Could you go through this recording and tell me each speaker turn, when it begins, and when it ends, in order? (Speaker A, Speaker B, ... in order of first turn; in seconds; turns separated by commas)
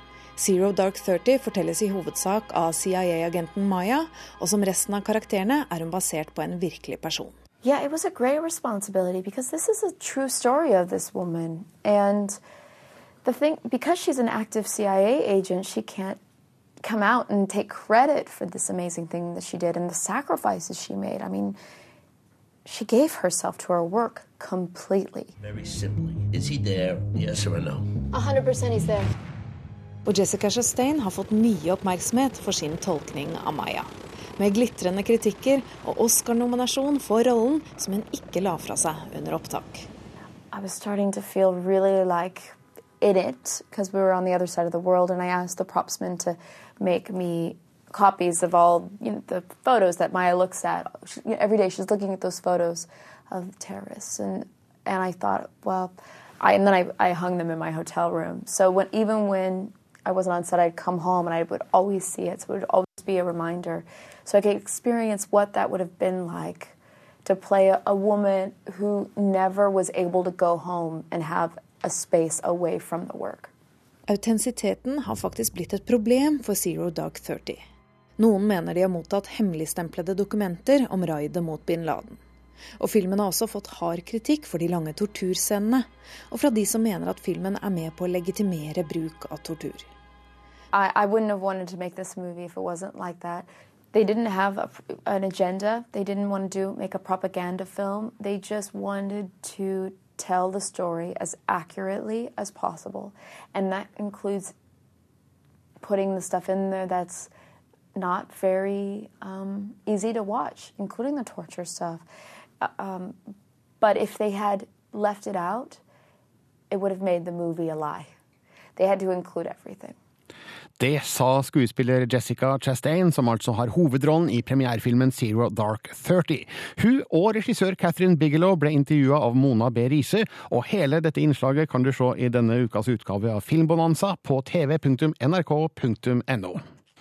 Speaker A: 0.4-7.3, Speaker B: 7.6-12.4, Speaker B: 13.2-16.2, Speaker B: 16.8-21.6, Speaker B: 22.7-25.3, Speaker C: 25.4-27.9, Speaker B: 28.1-29.1, Speaker A: 30.1-39.9, Speaker B: 40.5-73.5, Speaker A: 74.1-77.6, Speaker A: 78.2-82.2, Speaker A: 82.8-89.9, Speaker B: 90.7-104.5, Speaker B: 105.8-107.3, Speaker B: 108.0-112.0, Speaker B: 112.6-113.2, Speaker B: 113.8-115.8, Speaker B: 116.7-118.1, Speaker B: 118.8-120.0, Speaker D: 120.8-136.6